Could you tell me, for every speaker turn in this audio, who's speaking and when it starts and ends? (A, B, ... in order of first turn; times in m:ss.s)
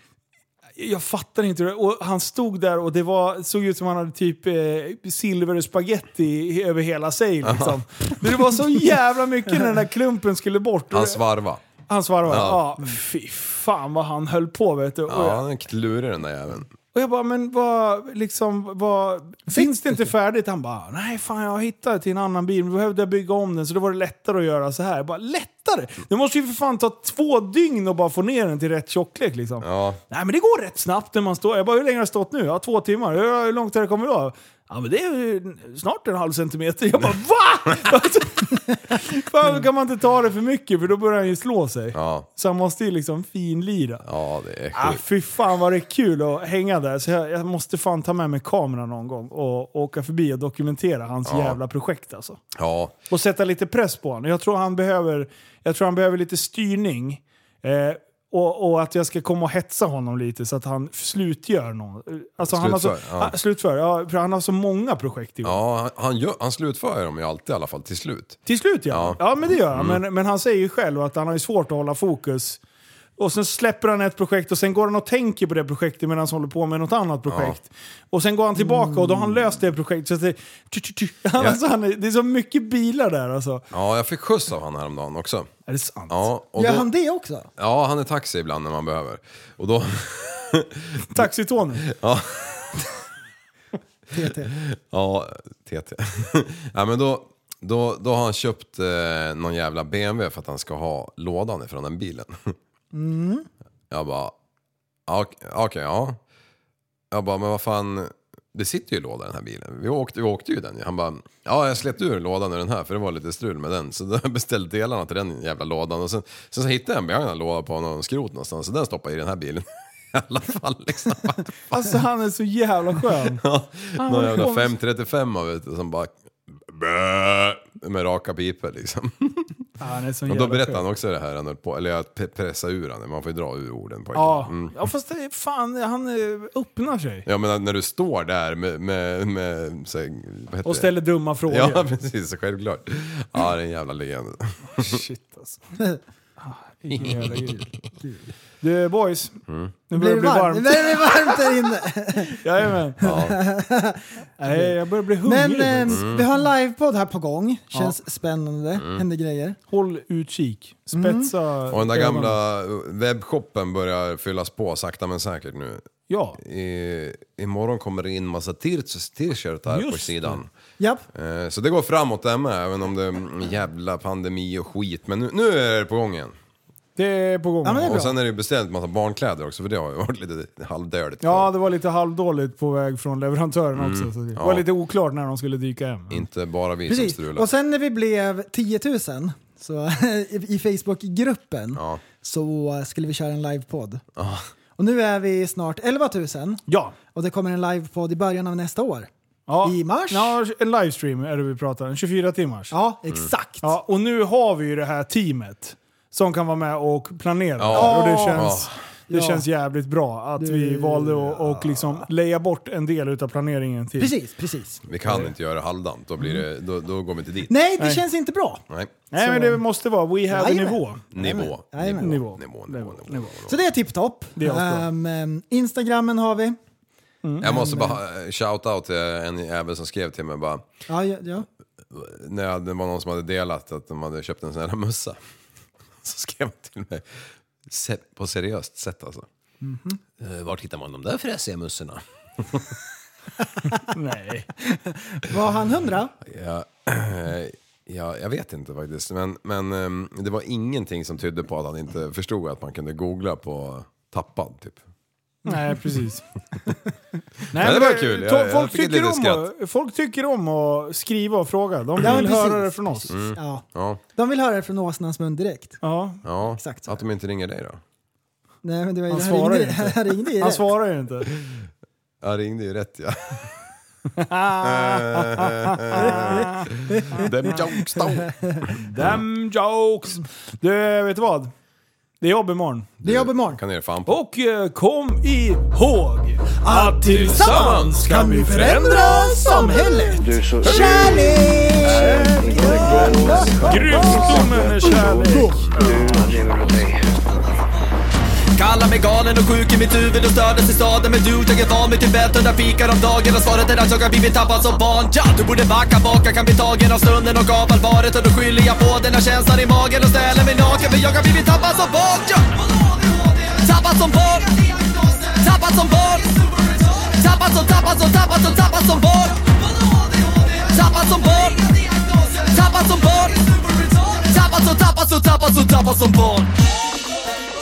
0:00.8-0:11.2 A
0:07.4-0:07.8 B
0:10.9-0:11.6 B
0:11.8-0:15.4 A
0:12.2-0:12.7 B
0:15.1-0:16.7 B
0:16.9-0:44.0 A
0:19.5-0:20.0 C
0:29.6-0:30.0 B
0:41.9-0:42.3 B
0:44.0-0:45.0 B
0:44.7-0:52.4 A
0:51.3-0:51.6 B
0:52.6-0:53.0 B
0:53.1-1:05.6 A
1:02.4-1:03.3 B
1:05.4-1:10.0 B
1:08.4-1:12.6 A
1:13.2-1:23.6 A
1:17.3-1:17.6 B
1:18.6-1:19.4 C
1:23.7-1:25.5 B
1:25.7-1:26.2 A
1:26.1-1:26.9 B
1:26.6-1:27.5 C
1:27.6-1:31.3 B
1:31.1-1:31.8 A
1:31.8-1:32.9 B
1:34.1-1:34.5 C
1:34.5-1:42.6 B
1:42.9-1:43.5 C
1:43.9-1:44.4 B
1:45.1-1:46.2 B
1:47.1-2:01.5 B
2:01.7-2:03.4 A
2:03.4-2:09.7 B
2:04.0-2:04.7 A
2:09.8-2:10.8 A
2:10.3-2:14.7 B
2:14.1-2:17.3 A
2:17.3-2:20.9 B
2:20.6-2:21.9 A
2:21.5-2:25.0 B
2:24.8-2:25.6 A
2:26.4-2:27.7 A
2:26.9-2:27.7 B
2:28.6-2:31.4 A
2:29.5-2:29.7 B
2:30.0-2:32.4 C
2:32.4-2:33.0 A
2:33.0-2:33.4 B
2:33.0-2:34.7 C
2:34.4-2:36.2 A
2:35.2-2:39.6 C
2:35.9-2:36.2 B
2:38.8-2:39.0 B
2:39.7-2:42.4 A
2:40.9-2:41.3 C
2:41.7-2:50.5 B
2:46.1-2:46.4 A
2:49.7-2:50.4 A
2:50.8-2:51.1 C
2:51.1-2:56.4 B
2:57.0-2:58.0 A
2:57.6-2:58.2 C
2:57.8-3:01.5 B
3:01.2-3:06.2 A
3:03.8-3:04.7 B
3:06.1-3:07.5 B
3:06.9-3:14.0 C
3:11.7-3:12.0 B
3:14.2-3:14.5 B
3:14.8-3:16.6 C
3:16.7-3:17.0 A
3:17.1-3:19.1 C
3:19.5-3:22.7 A
3:19.6-3:20.4 C
3:22.7-3:23.7 C
3:23.6-3:34.1 A
3:27.6-3:28.7 B
3:27.7-3:28.5 C
3:29.1-3:29.4 C
3:30.4-3:32.0 C
3:34.0-3:34.8 C
3:34.9-3:37.5 B
3:35.0-3:35.3 A
3:37.5-3:38.6 C
3:37.8-3:38.0 A
3:39.1-3:41.0 A
3:39.2-3:39.6 C
3:40.3-3:42.2 C
3:41.1-3:43.6 B
3:42.0-3:43.4 A
3:43.5-3:46.6 C
3:44.4-3:44.9 A
3:47.2-3:47.6 A
3:47.4-3:50.7 B
3:47.4-3:48.0 C
3:50.9-3:51.4 C
3:51.9-3:55.2 B
3:56.0-3:59.3 B
3:59.6-4:00.0 C
4:00.2-4:02.8 B
4:03.9-4:04.5 A
4:04.7-4:06.1 C
4:06.2-4:14.8 B
4:15.4-4:16.2 A
4:17.5-4:23.1 A
4:17.5-4:19.5 B
4:22.0-4:23.6 C
4:23.1-4:24.0 B
4:24.2-4:25.8 C
4:25.8-4:26.2 A
4:26.2-4:27.8 B
4:26.6-4:27.0 C
4:28.6-4:30.6 C
4:29.1-4:31.3 A
4:31.3-4:31.6 B
4:32.2-4:33.6 B
4:34.2-4:37.3 A
4:34.6-4:39.2 B
4:36.0-4:38.6 C
4:38.7-4:41.5 A
4:42.2-4:42.9 A
4:43.0-4:44.2 B
4:43.0-4:43.6 C
4:44.1-4:56.3 A
4:46.6-4:55.8 C
4:47.1-4:48.0 B
4:50.2-4:57.4 D
4:58.6-5:26.5 E